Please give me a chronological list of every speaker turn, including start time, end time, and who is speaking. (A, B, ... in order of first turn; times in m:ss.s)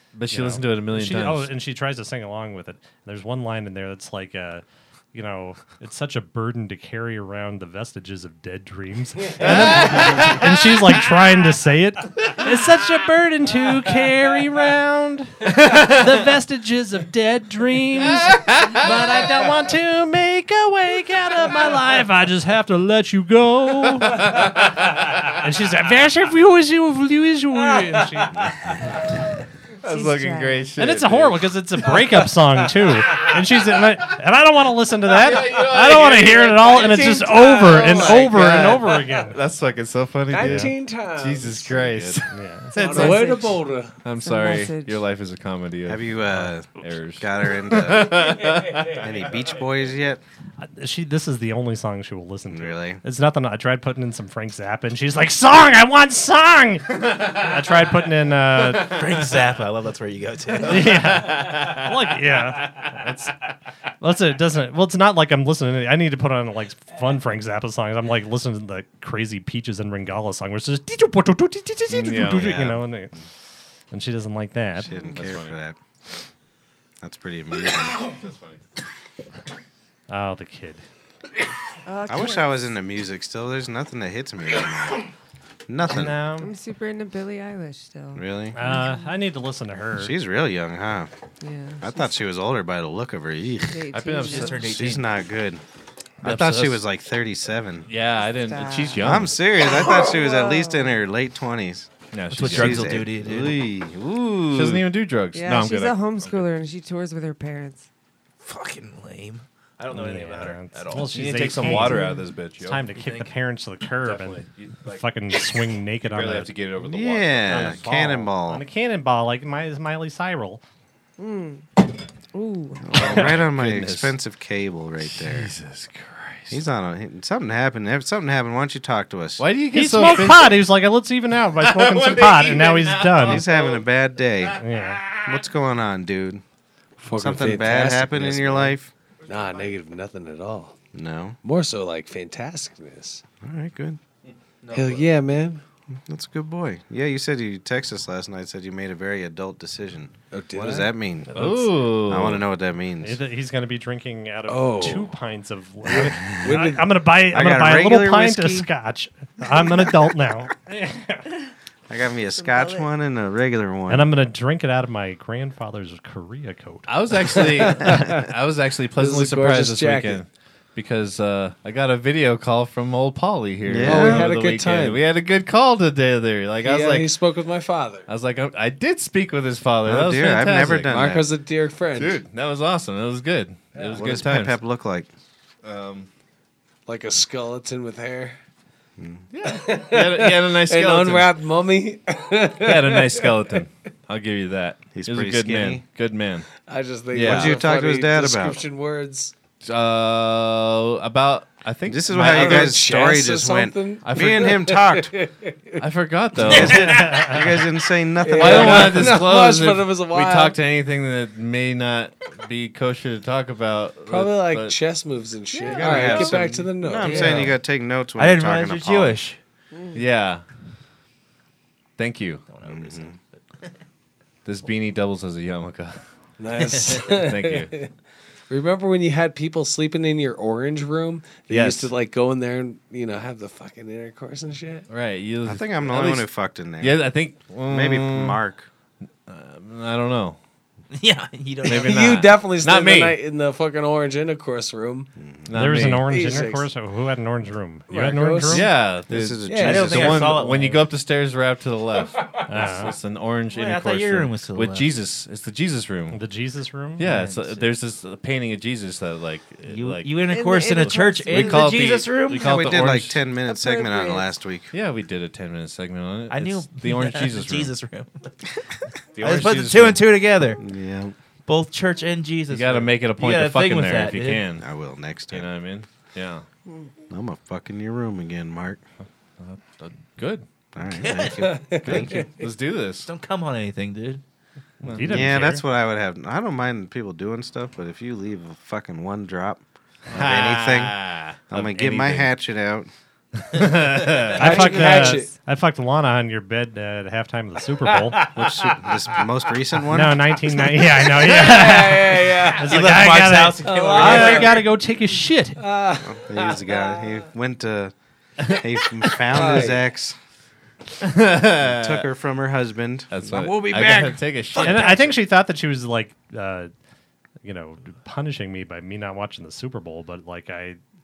0:00.1-0:01.5 A
0:00.3-0:24.6 B
0:09.4-0:11.1 A
0:15.5-0:16.1 A
0:18.1-0:18.9 A
0:24.2-0:25.2 A
0:25.2-0:28.6 B
0:27.7-0:28.5 C
0:29.8-0:31.5 A
0:29.8-0:30.7 D
0:30.8-0:39.4 B
0:35.1-0:43.2 A
0:36.7-0:39.0 C
0:40.3-0:41.9 C
0:40.4-0:40.7 B
0:41.8-0:42.1 E
0:42.3-0:43.4 B
0:42.8-0:43.9 C
0:42.8-0:43.6 D
0:44.0-0:49.1 A
0:44.2-0:45.0 D
0:45.9-0:48.4 E
0:48.5-0:48.8 C
0:48.9-0:50.2 E
0:50.6-0:59.0 B
0:52.5-0:53.0 E
0:57.1-0:57.6 A
0:58.6-0:59.2 A
0:58.8-1:01.1 F
1:00.6-1:03.3 B
1:00.6-1:03.3 A
1:04.0-1:13.1 B
1:11.9-1:12.8 A
1:13.9-1:15.0 B
1:14.8-1:15.8 E
1:14.9-1:15.2 D
1:15.0-1:15.6 A
1:17.0-1:18.2 E
1:18.0-1:18.6 A
1:20.1-1:20.8 B
1:21.8-1:22.8 D
1:22.1-1:25.1 E
1:25.7-1:26.2 E
1:25.9-1:26.5 B
1:26.4-1:29.1 D
1:28.2-1:28.6 E
1:28.6-1:30.2 B
1:30.0-1:31.1 E
1:31.4-1:32.1 D
1:31.8-1:33.8 E
1:33.7-1:34.6 D
1:33.9-1:34.7 A
1:34.3-1:35.1 F
1:34.5-1:35.6 E
1:36.2-1:37.9 E
1:36.2-1:36.8 F
1:37.9-1:39.4 A
1:38.4-1:41.0 D
1:39.0-1:44.9 E
1:42.1-1:43.0 A
1:42.3-1:43.6 F
1:44.5-1:46.4 A
1:45.3-1:47.9 D
1:48.4-1:51.7 F
1:49.9-1:56.5 B
1:51.0-1:52.9 A
1:53.0-1:53.3 F
1:54.1-1:54.7 A
1:56.0-1:57.9 A
1:56.8-1:58.6 E
1:57.5-2:00.6 B
2:01.2-2:01.7 D
2:02.3-2:02.9 D
2:02.8-2:05.5 E
2:02.9-2:04.2 A
2:05.0-2:06.6 A
2:06.5-2:09.5 E
2:09.4-2:10.7 A
2:09.7-2:13.4 B
2:11.6-2:13.9 A
2:13.2-2:14.6 E
2:14.4-2:15.5 A
2:14.6-2:15.1 B
2:15.2-2:16.4 E
2:17.0-2:20.8 C
2:17.1-2:18.9 E
2:20.9-2:21.4 E
2:21.4-2:23.2 C
2:23.4-2:24.0 E
2:24.7-2:25.6 C
2:26.1-2:33.2 E
2:30.3-2:30.9 C
2:31.3-2:32.4 A
2:33.0-2:41.3 B
2:34.5-2:35.1 C
2:35.9-2:36.9 C
2:37.3-2:38.7 E
2:41.9-2:44.1 E
2:42.3-2:42.9 D
2:43.9-2:47.4 B
2:46.9-2:57.1 A
2:47.4-2:48.2 C
2:49.0-2:50.2 C
2:53.7-2:54.3 E
2:53.8-2:55.0 C
2:56.6-2:58.1 C
2:58.1-3:01.1 A
2:59.8-3:01.3 E
3:00.9-3:02.2 C
3:02.0-3:04.6 A
3:03.8-3:04.2 C
3:03.9-3:05.1 E
3:05.6-3:06.1 A
3:06.9-3:08.4 C
3:09.0-3:09.2 E
3:09.3-3:11.3 A
3:09.4-3:13.4 C
3:12.6-3:16.5 A
3:15.0-3:15.8 E
3:16.7-3:19.3 C
3:17.1-3:17.6 A
3:17.2-3:18.6 E
3:19.6-3:22.8 A
3:21.9-3:25.2 E
3:22.2-3:25.8 C
3:24.0-3:24.7 A
3:25.8-3:27.3 A
3:26.4-3:29.2 E
3:26.5-3:27.2 C
3:26.9-3:27.4 B
3:28.2-3:30.6 C
3:28.3-3:34.8 A
3:34.1-3:37.5 C
3:35.7-3:36.5 A
3:35.7-3:39.2 E
3:37.0-3:37.6 F
3:38.2-3:39.4 F
3:39.7-3:40.0 D
3:39.9-3:40.4 A
3:42.0-3:42.4 A
3:42.5-3:43.7 F
3:42.7-3:43.1 E
3:44.4-3:46.0 A
3:46.4-3:47.9 C
3:46.9-3:47.7 A
3:48.5-3:54.9 C
3:51.5-3:51.9 A
3:54.9-3:56.3 A
3:55.4-3:57.1 E
3:56.8-3:58.4 A
3:57.7-3:58.7 E
3:59.3-4:00.4 A
4:00.9-4:02.3 F
4:01.6-4:03.2 A
4:01.7-4:05.1 C
4:05.2-4:05.5 E
4:05.5-4:06.1 A
4:05.5-4:08.7 B
4:06.0-4:06.7 C
4:07.9-4:08.7 C
4:08.5-4:16.2 A
4:09.1-4:10.5 E
4:09.5-4:09.9 C
4:09.6-4:10.9 F
4:12.5-4:13.0 B
4:13.5-4:14.9 F
4:16.1-4:17.1 B
4:17.0-4:20.2 A
4:17.0-4:17.7 F
4:19.7-4:22.6 F
4:20.3-4:21.7 D
4:20.8-4:23.2 A
4:22.3-4:24.7 E
4:23.5-4:24.3 D
4:24.7-4:27.7 A
4:26.3-4:28.4 F
4:29.1-4:30.0 A
4:29.2-4:30.6 F
4:30.6-4:31.2 E
4:31.5-4:34.4 F
4:32.5-4:34.7 A
4:34.6-4:35.5 E
4:35.3-4:36.4 A
4:37.1-4:38.8 E
4:39.4-4:40.4 A
4:40.8-4:42.3 E
4:41.0-4:41.5 F
4:41.4-4:42.3 C
4:41.8-4:43.1 A
4:43.1-4:44.2 F
4:44.8-4:45.4 A
4:44.8-4:45.6 B
4:45.0-4:51.0 E
4:50.1-4:52.4 A
4:51.5-4:52.9 E
4:53.4-4:54.7 A
4:54.1-4:54.7 F
4:54.4-4:55.4 C
4:54.4-4:58.3 B
4:57.9-4:59.2 C
4:58.3-5:00.4 E
4:59.9-5:05.6 B
5:00.5-5:02.9 C
5:02.6-5:04.6 F
5:03.6-5:04.7 C
5:05.6-5:07.2 C
5:06.0-5:10.2 E
5:09.2-5:09.8 C
5:11.0-5:12.1 A
5:11.6-5:13.6 E
5:13.1-5:15.1 A
5:13.3-5:15.1 F
5:14.6-5:16.7 B
5:17.4-5:20.8 B